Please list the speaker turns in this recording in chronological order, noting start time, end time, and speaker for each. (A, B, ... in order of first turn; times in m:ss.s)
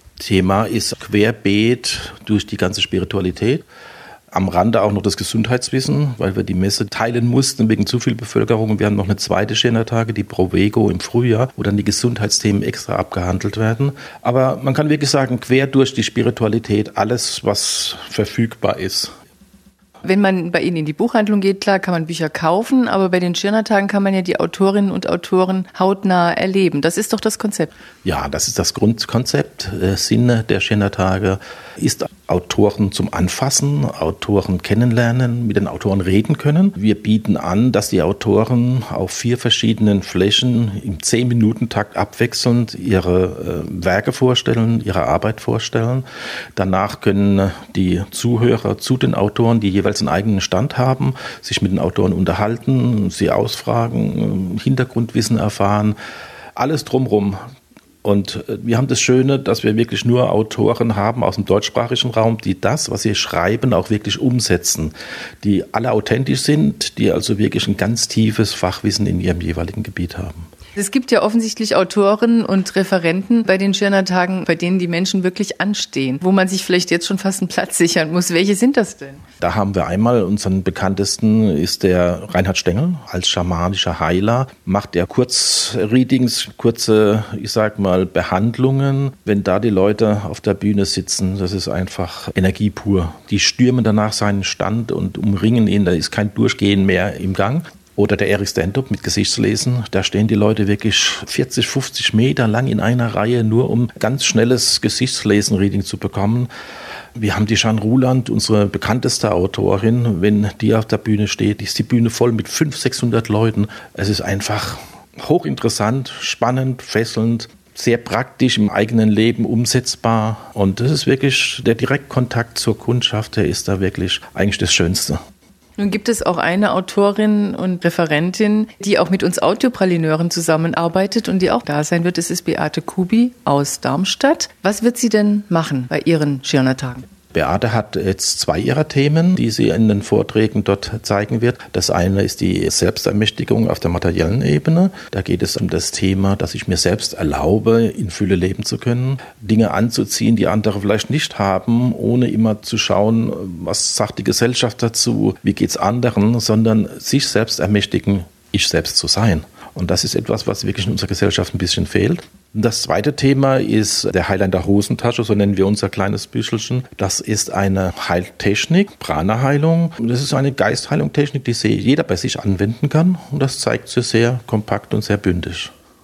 0:00.2-0:03.6 A
0:04.3-0:19.1 A
0:20.0-0:27.7 B
0:28.0-0:46.0 A
0:46.6-0:56.0 A
0:56.6-0:57.4 A
0:58.0-1:10.4 A
1:10.8-1:19.2 B
1:19.4-1:46.5 A
1:47.2-2:05.2 A
2:05.8-2:17.0 B
2:17.3-2:55.7 A